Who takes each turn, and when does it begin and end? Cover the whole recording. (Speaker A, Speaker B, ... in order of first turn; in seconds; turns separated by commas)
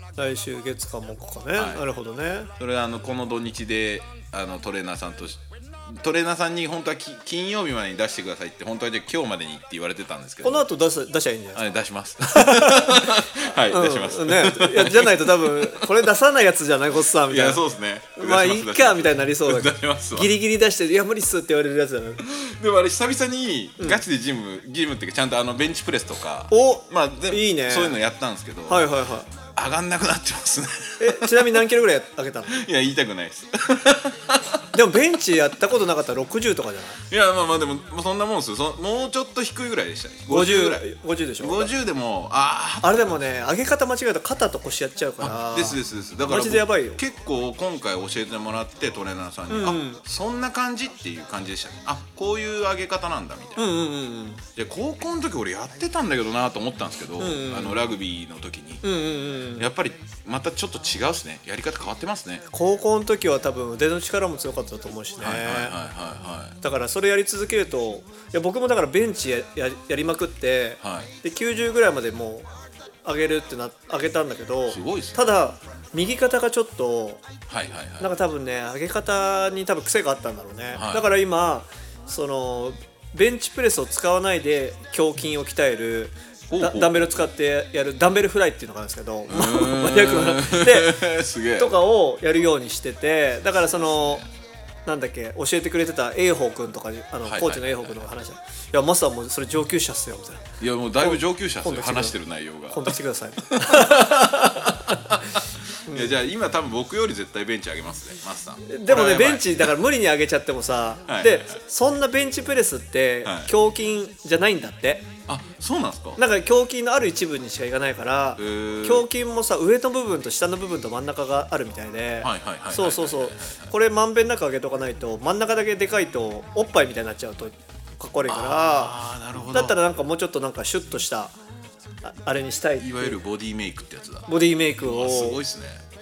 Speaker A: 0.1-2.5, Speaker B: 1.5-1.8, Speaker B: 2.6-10.7, Speaker A: 10.4-13.1, Speaker B: 11.5-15.9, Speaker A: 13.7-17.6, Speaker B: 17.2-20.3, Speaker A: 18.1-22.2, Speaker B: 22.2-28.9, Speaker A: 23.8-24.0, Speaker A: 26.5-28.0, Speaker A: 28.7-29.3, Speaker B: 29.5-31.6, Speaker A: 31.0-32.6, Speaker B: 32.4-34.7, Speaker A: 34.7-37.0, Speaker B: 37.1-40.8, Speaker A: 40.3-41.8, Speaker B: 41.4-43.2, Speaker A: 42.8-47.0, Speaker B: 45.2-53.6, Speaker A: 49.5-50.0, Speaker A: 53.6-54.4, Speaker B: 54.5-58.8, Speaker A: 57.2-57.8, Speaker A: 58.8-59.7, Speaker B: 59.6-62.4, Speaker A: 62.5-65.8, Speaker B: 65.2-66.6, Speaker A: 66.6-72.5, Speaker B: 70.8-71.1, Speaker A: 73.0-77.2, Speaker B: 74.7-75.3, Speaker B: 77.5-78.1, Speaker A: 78.0-91.0, Speaker B: 80.7-81.1, Speaker B: 86.5-87.0, Speaker B: 89.3-91.7, Speaker A: 91.6-94.2, Speaker A: 94.8-100.5, Speaker B: 97.2-98.0, Speaker B: 100.6-103.0, Speaker A: 101.0-102.2, Speaker A: 102.7-105.0, Speaker B: 103.5-109.7, Speaker A: 105.9-106.1, Speaker A: 108.6-115.1, Speaker B: 111.1-111.6, Speaker B: 113.2-113.5, Speaker B: 115.3-116.2, Speaker A: 116.2-129.0, Speaker B: 118.4-119.0, Speaker B: 122.2-123.7, Speaker B: 128.3-129.8, Speaker A: 129.5-131.3, Speaker A: 132.0-133.2, Speaker B: 132.8-135.8, Speaker A: 134.3-135.4